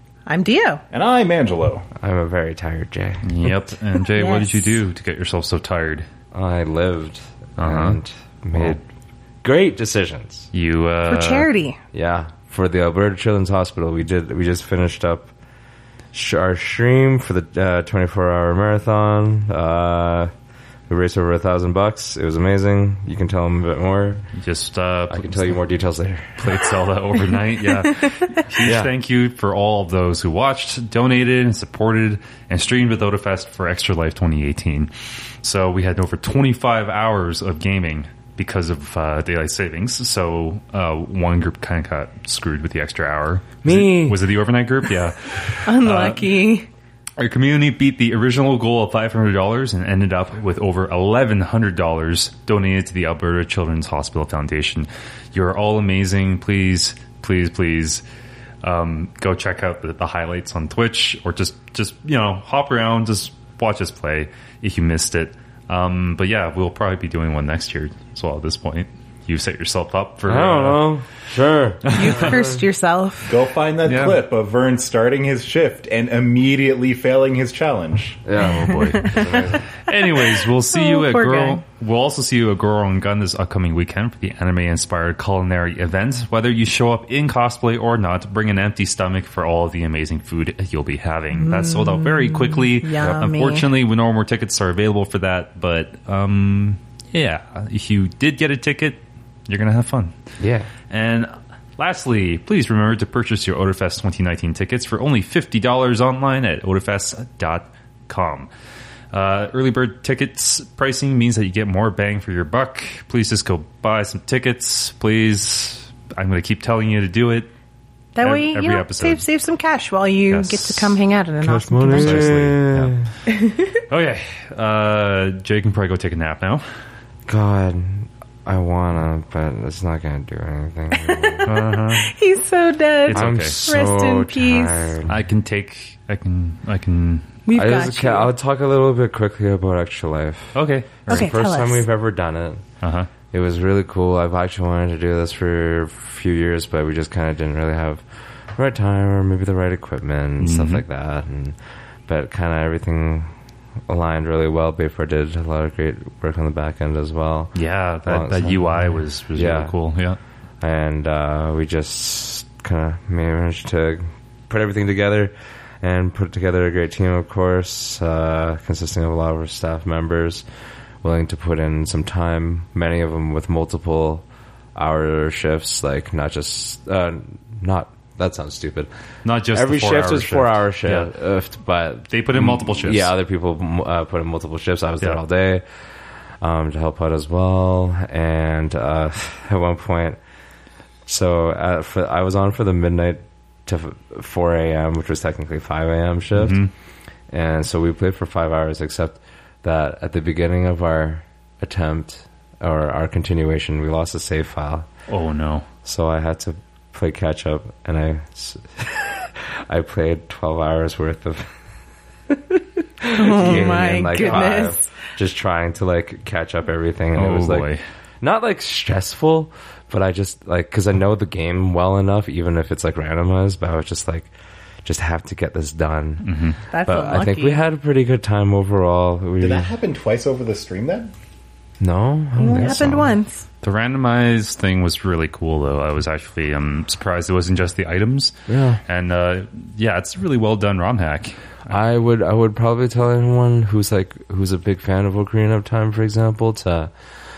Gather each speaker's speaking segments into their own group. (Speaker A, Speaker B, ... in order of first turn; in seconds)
Speaker A: 0.3-0.8, 4.1-4.8, 11.1-11.8, 45.6-46.7, 71.9-73.3, 78.8-79.2, 79.9-81.6, 91.3-93.7, 118.2-122.5, 123.3-123.8, 130.9-135.0, 137.4-138.3, 141.1-141.8, 213.0-214.9, 226.7-227.6, 232.4-233.4
Speaker B: 0.9-1.9, 73.3-78.2, 229.4-231.1
Speaker C: 1.9-3.5, 6.3-8.8, 9.4-10.5, 11.9-15.3, 16.1-20.3, 20.9-24.2, 25.1-26.6, 28.6-28.9, 43.6-44.2, 70.3-72.6, 78.2-79.7, 100.4-100.7, 121.4-123.0, 127.3-131.5, 133.1-135.2, 137.5-142.6, 143.3-153.3, 153.9-159.7, 160.6-170.4, 171.0-174.2, 174.8-178.9, 179.5-185.6, 186.4-190.2, 191.1-196.6, 197.3-204.9, 205.8-211.5, 212.3-217.7, 218.2-224.3, 224.8-229.7, 231.8-233.2, 238.5-238.8, 241.7-246.9
Speaker D: 3.2-6.0, 7.6-8.0, 10.5-11.5, 24.4-25.6, 26.4-34.9, 35.4-46.4, 47.2-58.0, 58.6-70.9, 71.8-72.4, 73.8-74.2, 79.8-100.1, 100.9-108.5, 109.1-117.5, 118.2-119.2, 120.3-121.0, 121.9-123.0, 123.9-126.6, 131.4-132.1, 133.1-133.6, 135.1-137.3, 140.5-141.3, 142.8-143.1, 150.4-150.8, 157.5-160.2, 179.2-181.1, 182.1-183.1, 196.3-196.7, 205.1-205.7, 217.1-217.8, 226.2-226.6, 233.6-241.7